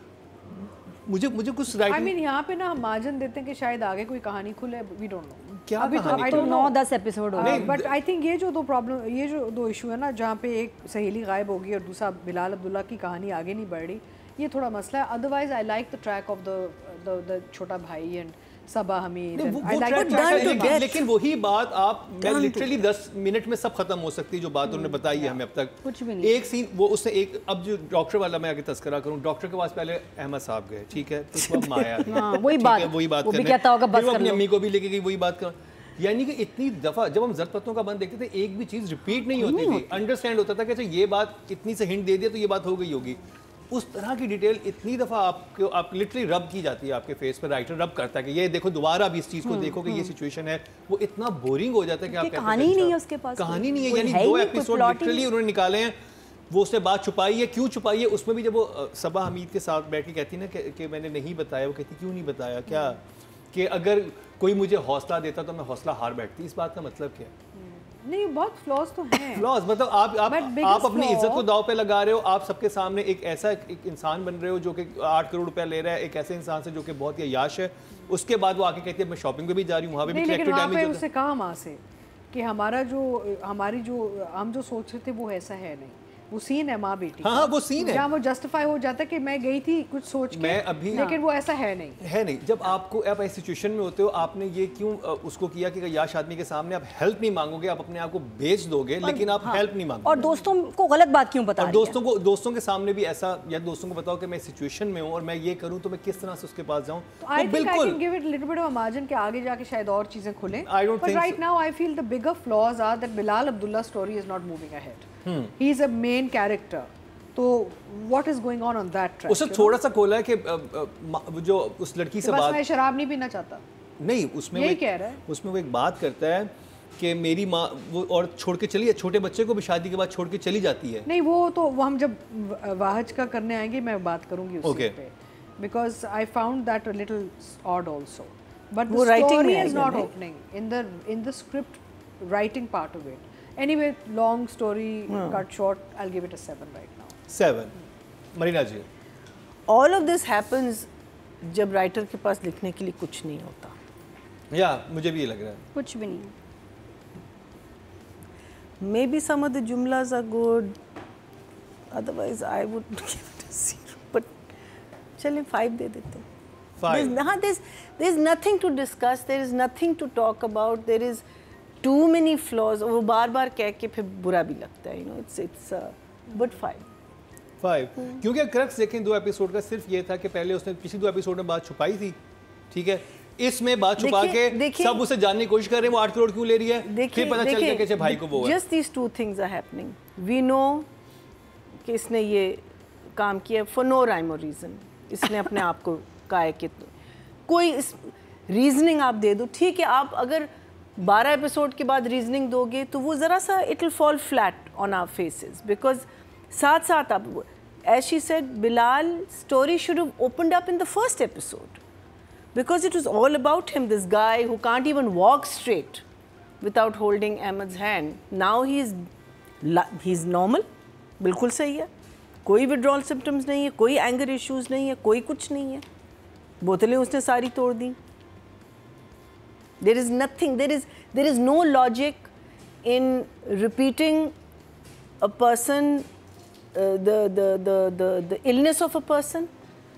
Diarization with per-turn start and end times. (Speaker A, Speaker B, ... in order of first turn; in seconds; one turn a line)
Speaker A: 0.5-2.1
Speaker B: 1.9-6.8
Speaker A: 5.6-6.5
Speaker C: 6.0-7.7
Speaker B: 7.3-20.9
Speaker A: 7.4-8.0
Speaker A: 19.4-56.0
Speaker D: 19.6-21.1
Speaker D: 22.2-22.8
Speaker C: 25.8-26.4
Speaker C: 31.5-34.4
Speaker C: 39.3-40.0
Speaker C: 49.5-50.1
Speaker C: 52.1-55.3
Speaker A: 56.5-63.0
Speaker A: 63.5-67.3
Speaker B: 67.5-69.5
Speaker A: 69.3-81.0
Speaker B: 70.2-71.5
Speaker B: 80.1-92.0
Speaker A: 87.2-88.1
Speaker A: 90.3-91.1
Speaker C: 90.9-91.2
Speaker A: 92.0-100.3
Speaker C: 99.0-102.0
Speaker A: 101.6-108.0
Speaker B: 107.2-119.8
Speaker A: 110.6-111.4
Speaker A: 115.2-115.5
Speaker A: 119.3-122.6
Speaker B: 122.2-123.6
Speaker A: 124.0-131.1
Speaker B: 124.5-125.2
Speaker B: 131.1-147.2
Speaker A: 134.6-134.9
Speaker D: 138.9-140.1
Speaker D: 145.1-145.4
Speaker A: 147.3-147.7
Speaker A: 148.3-148.9
Speaker D: 149.7-150.9
Speaker D: 151.4-153.7
Speaker A: 154.5-155.6
Speaker C: 155.7-156.3
Speaker D: 158.8-160.8
Speaker D: 161.9-164.3
Speaker D: 165.2-166.2
Speaker A: 166.8-167.2
Speaker D: 166.9-171.2
Speaker D: 171.8-176.8
Speaker A: 177.6-182.2
Speaker A: 182.7-188.6
Speaker D: 184.0-185.0
Speaker D: 186.8-190.9
Speaker D: 191.8-192.6
Speaker D: 193.1-196.9
Speaker D: 197.5-211.8
Speaker D: 212.5-216.0
Speaker D: 216.6-219.1
Speaker D: 219.6-220.7
Speaker D: 221.2-221.9
Speaker D: 222.4-225.8
Speaker D: 226.6-228.0
Speaker D: 229.8-232.3
Speaker D: 232.8-234.3
Speaker D: 235.2-236.1
Speaker D: 236.7-239.5